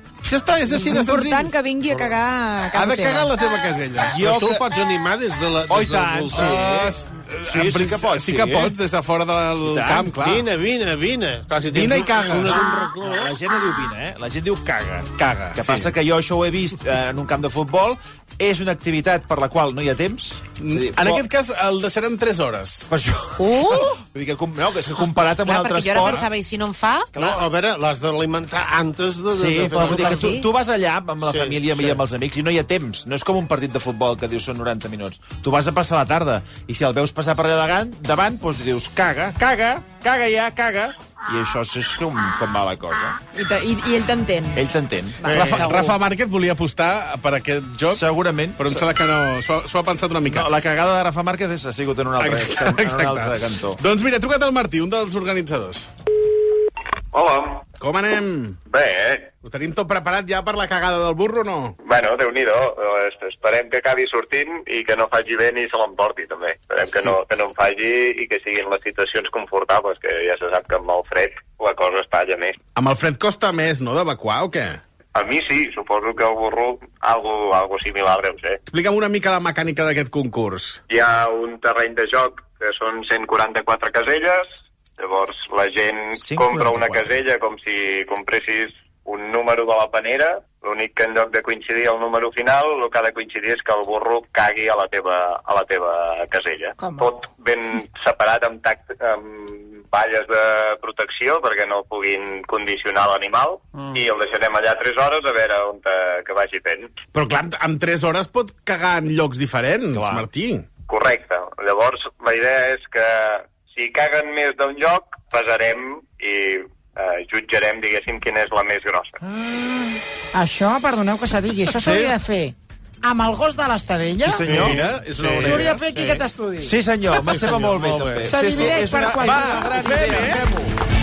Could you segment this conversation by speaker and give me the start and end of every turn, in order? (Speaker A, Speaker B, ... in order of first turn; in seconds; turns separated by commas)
Speaker A: 0.2-1.5, Speaker B: 0.7-3.4, Speaker C: 1.9-2.2, Speaker A: 2.7-4.2, Speaker D: 4.0-4.7, Speaker C: 4.2-6.6, Speaker D: 5.7-8.8, Speaker A: 6.3-10.5, Speaker D: 9.6-10.2, Speaker C: 10.2-13.3, Speaker A: 11.7-12.6, Speaker D: 12.4-21.2, Speaker A: 15.2-15.9, Speaker A: 20.6-22.9, Speaker D: 22.9-26.3, Speaker E: 23.4-23.9, Speaker E: 25.4-27.1, Speaker D: 27.1-27.4, Speaker C: 27.2-30.4, Speaker D: 29.3-43.2, Speaker E: 29.7-30.5, Speaker C: 31.3-32.0, Speaker B: 43.3-44.7, Speaker D: 44.5-45.5, Speaker B: 45.2-46.0, Speaker C: 45.2-45.8, Speaker A: 45.4-48.0, Speaker D: 47.9-48.8, Speaker A: 48.6-50.5, Speaker D: 50.2-53.8, Speaker A: 52.2-55.9, Speaker F: 57.1-57.6, Speaker A: 57.8-58.6, Speaker F: 58.7-59.3, Speaker A: 59.4-61.8, Speaker F: 61.8-72.5, Speaker A: 72.8-74.8, Speaker F: 75.2-78.6, Speaker A: 78.7-80.8, Speaker F: 80.9-84.4, Speaker F: 85.0-106.9, Speaker D: 86.2-87.2, Speaker A: 107.1-110.7, Speaker D: 109.9-110.3, Speaker F: 110.9-119.2, Speaker D: 119.2-120.0, Speaker G: 120.3-124.4, Speaker C: 121.7-122.2, Speaker D: 124.2-124.8, Speaker A: 124.3-125.9, Speaker C: 124.4-126.3, Speaker G: 125.5-126.7, Speaker D: 126.6-130.8, Speaker C: 127.2-128.4, Speaker G: 128.3-129.8, Speaker A: 129.2-130.4